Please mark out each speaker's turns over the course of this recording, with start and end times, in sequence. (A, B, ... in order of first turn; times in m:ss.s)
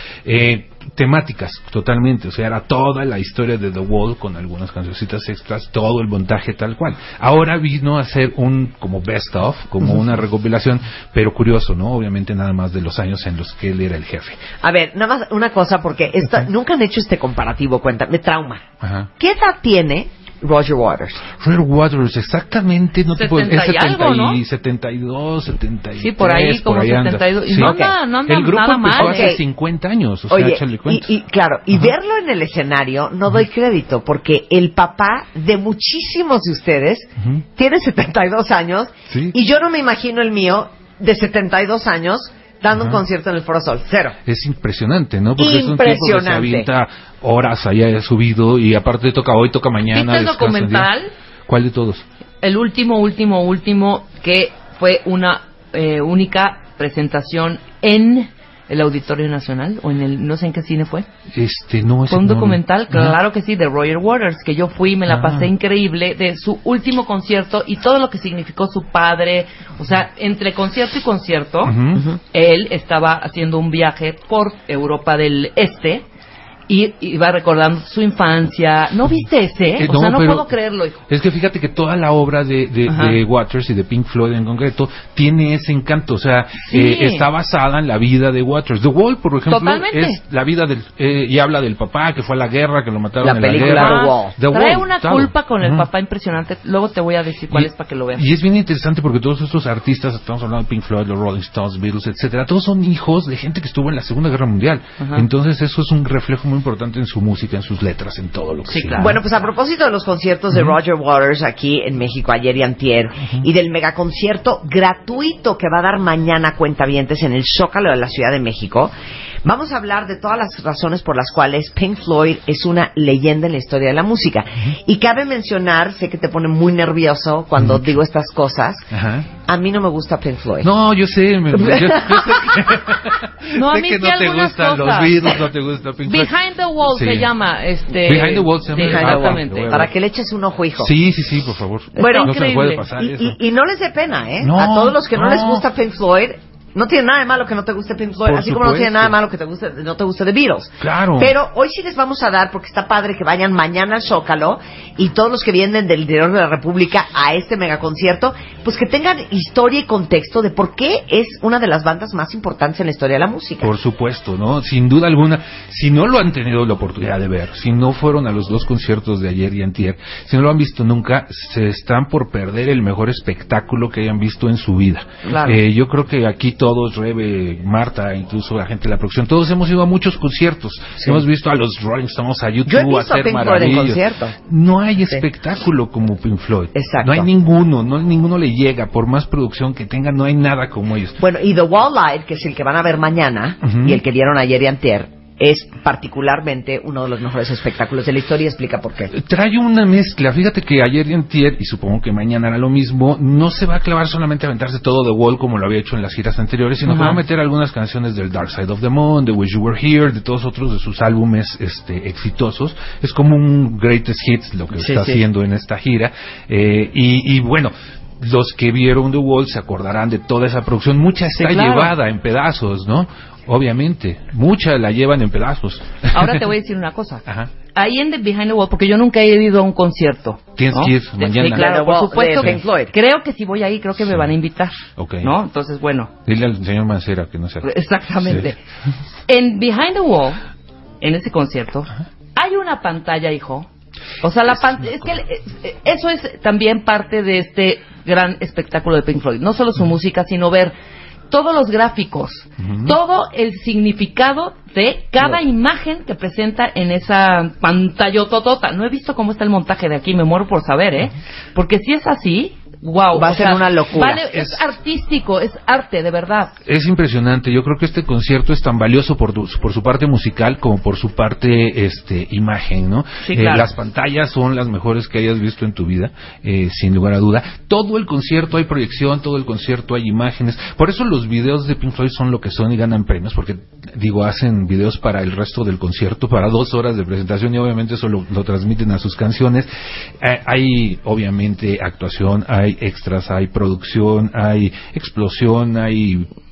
0:00.2-0:14.4 A
0:14.6-0:18.6 B
0:18.8-0:19.1 A
0:19.2-0:21.2 B
0:21.4-0:31.1 A
0:23.1-0:24.4 C
0:26.0-0:29.3 C
0:27.5-0:27.9 B
0:28.9-0:29.4 B
0:30.3-0:44.2 B
0:37.2-0:37.4 A
0:39.1-0:39.4 A
0:42.7-0:43.0 A
0:44.2-0:50.9 A
0:45.4-0:46.7 B
0:49.9-0:51.1 C
0:51.5-0:52.0 A
0:52.4-1:01.0 C
1:01.4-1:03.2 A
1:02.1-1:11.7 C
1:05.0-1:05.5 A
1:11.6-1:12.0 A
1:12.3-1:16.0 C
1:16.7-1:21.0 C
1:19.8-1:20.5 A
1:21.1-1:35.9 A
1:22.9-1:23.2 C
1:26.6-1:27.3 C
1:29.5-1:30.2 C
1:33.2-1:34.3 B
1:33.6-1:38.2 C
1:37.5-1:49.4 A
1:45.0-1:45.2 C
1:48.7-1:49.2 C
1:49.0-1:58.9 B
1:50.5-1:50.8 A
1:59.4-2:08.9 B
2:07.6-2:07.8 A
2:08.9-2:09.3 A
2:09.5-2:10.7 B
2:10.6-2:16.3 A
2:11.6-2:12.6 B
2:13.5-2:15.3 C
2:16.0-2:19.7 C
2:16.8-2:17.3 A
2:18.0-2:19.9 A
2:18.2-2:20.9 B
2:20.8-2:23.4 A
2:21.9-2:22.9 C
2:22.0-2:22.3 B
2:22.9-2:43.7 B
2:24.4-2:25.6 A
2:28.2-2:29.1 A
2:30.8-2:31.3 A
2:43.6-3:11.2 A
2:55.3-2:55.5 B
2:55.3-2:55.5 C
3:02.7-3:04.3 B
3:06.7-3:07.3 B
3:11.2-3:19.1 B
3:13.6-3:14.0 A
3:19.1-3:46.4 A
3:26.8-3:27.2 C
3:34.8-3:35.2 B
3:41.3-3:41.9 C
3:46.1-3:47.2 C
3:47.2-3:47.5 A
3:47.7-3:56.1 C
3:50.6-3:51.7 A
3:51.4-3:52.9 B
3:52.3-3:52.6 A
3:54.0-3:54.3 A
3:55.0-3:55.3 A
3:56.2-3:57.7 A
3:57.6-3:58.6 C
3:58.2-3:58.5 A
3:59.3-4:00.4 C
4:01.0-4:03.7 C
4:04.2-4:10.7 C
4:11.3-4:26.5 C
4:12.6-4:13.0 A
4:23.1-4:24.2 B
4:24.3-4:24.6 A
4:26.6-4:49.7 A
4:33.2-4:33.7 C
4:50.2-4:56.3 A